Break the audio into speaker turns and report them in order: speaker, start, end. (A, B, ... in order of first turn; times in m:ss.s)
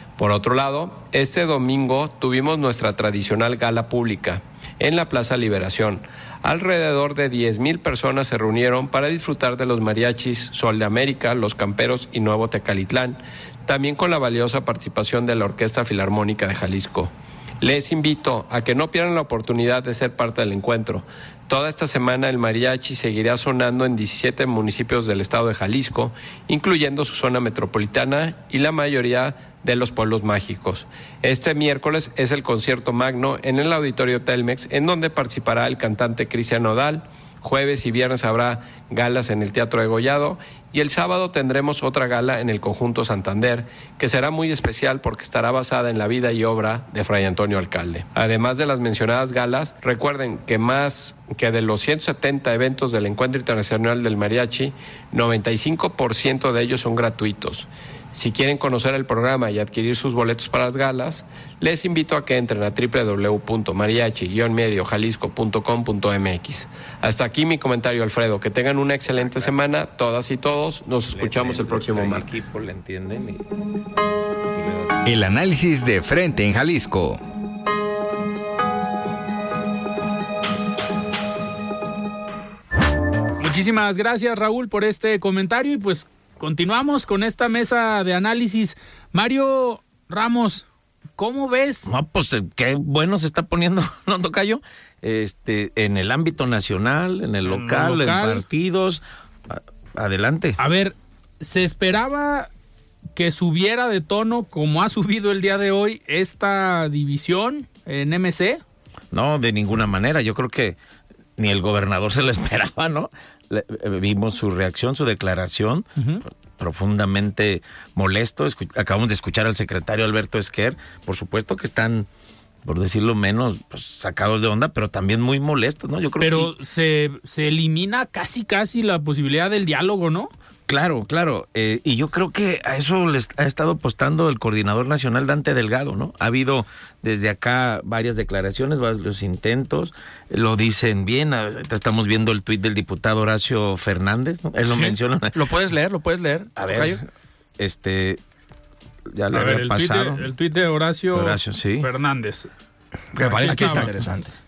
0:00.2-1:12.4 A
1:09.1-1:09.5 B
1:11.2-1:13.5 B
1:14.4-1:15.1 B
1:15.0-1:17.2 C
1:23.4-1:30.6 D
1:31.2-1:31.9 D
1:31.9-1:40.6 B
1:37.5-1:38.4 D
1:40.6-1:42.5 D
1:43.2-1:48.6 D
1:49.1-1:50.8 B
1:51.4-1:55.9 B
1:56.0-1:56.2 D
1:56.6-2:02.1 B
2:02.6-2:06.5 B
2:06.2-2:10.3 D
2:10.7-2:25.4 B
2:24.7-2:25.0 D
2:25.3-2:27.0 E
2:26.6-2:27.0 B
2:27.6-2:28.2 B
2:29.1-2:30.2 B
2:29.3-2:32.5 D
2:31.1-2:31.9 B
2:33.1-2:34.3 E
2:33.2-2:33.9 D
2:33.4-2:33.9 B